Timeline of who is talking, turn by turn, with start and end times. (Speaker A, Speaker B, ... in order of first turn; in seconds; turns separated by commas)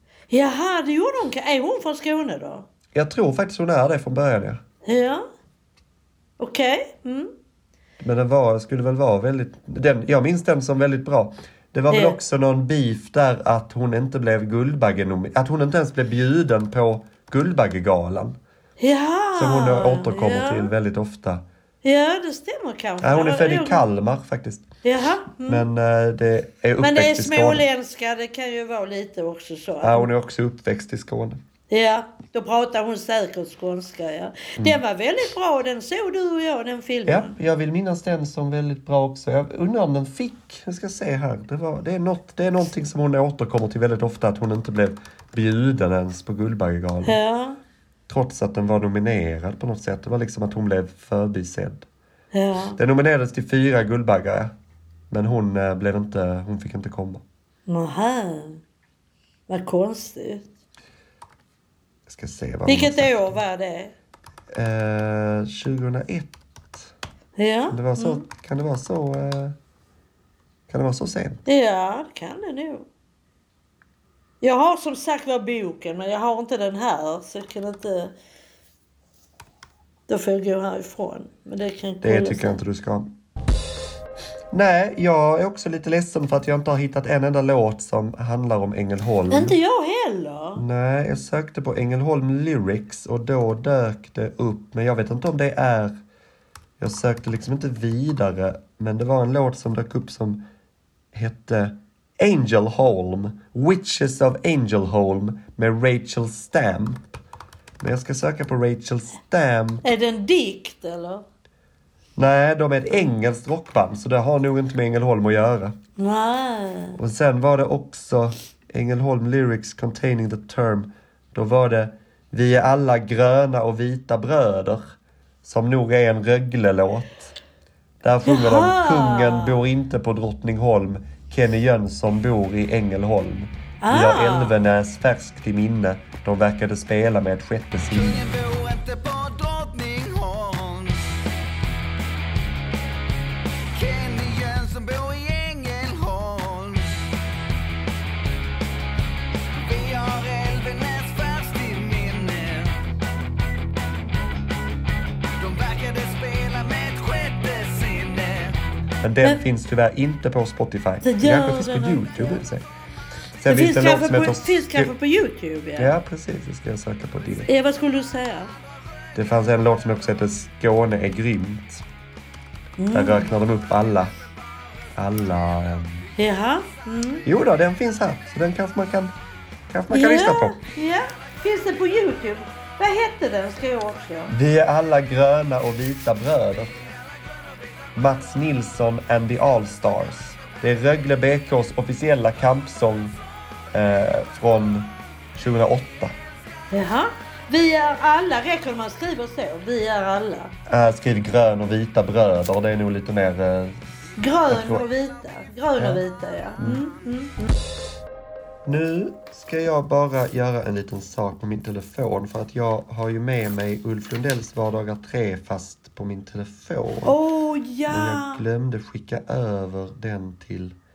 Speaker A: 0.3-2.7, Speaker B: 2.9-4.6, Speaker A: 4.9-5.2, Speaker A: 6.4-7.3, Speaker B: 8.0-18.4, Speaker A: 11.9-12.2, Speaker A: 18.8-20.7, Speaker B: 19.4-21.4, Speaker A: 21.8-23.8, Speaker B: 23.0-24.7, Speaker A: 24.8-25.7, Speaker B: 25.5-27.6, Speaker A: 26.8-30.1, Speaker B: 29.8-31.4, Speaker A: 31.7-37.4, Speaker B: 37.1-47.2, Speaker A: 47.0-47.6, Speaker B: 48.1-51.9, Speaker A: 52.3-52.8, Speaker B: 52.8-54.5, Speaker B: 55.1-57.2, Speaker A: 57.7-58.6, Speaker A: 59.5-60.5, Speaker B: 62.1-63.4, Speaker A: 62.7-63.9, Speaker B: 64.5-66.9, Speaker A: 67.4-68.2, Speaker B: 67.7-69.6, Speaker B: 70.7-71.4, Speaker A: 71.5-72.9, Speaker A: 74.4-78.1, Speaker A: 80.1-82.6, Speaker B: 82.0-83.1, Speaker B: 84.5-89.6, Speaker A: 89.3-90.6, Speaker B: 90.5-96.0, Speaker B: 96.8-100.4, Speaker B: 101.1-107.2, Speaker B: 107.8-109.8, Speaker A: 109.8-111.2, Speaker B: 112.2-115.8, Speaker A: 116.0-117.0, Speaker B: 117.0-124.8, Speaker B: 125.4-127.3, Speaker B: 128.0-138.2, Speaker A: 128.2-129.6, Speaker A: 133.8-134.6, Speaker C: 137.9-141.2, Speaker C: 143.7-147.1, Speaker C: 149.6-152.8, Speaker C: 155.4-158.6, Speaker B: 159.0-162.7, Speaker A: 161.0-162.4, Speaker B: 163.4-164.9, Speaker A: 163.5-165.9, Speaker B: 165.8-167.5, Speaker A: 167.5-168.5, Speaker B: 169.2-171.8, Speaker A: 172.8-173.3, Speaker B: 172.9-174.1, Speaker B: 174.9-176.1, Speaker A: 176.2-177.3, Speaker B: 177.3-179.2, Speaker B: 179.7-180.6, Speaker A: 179.9-184.3, Speaker B: 184.3-186.8, Speaker B: 187.9-193.2, Speaker B: 193.7-196.2, Speaker A: 196.7-200.5, Speaker B: 200.7-203.8, Speaker A: 204.2-207.5, Speaker B: 204.5-204.9, Speaker B: 208.7-217.2, Speaker A: 217.1-218.4, Speaker B: 217.9-220.8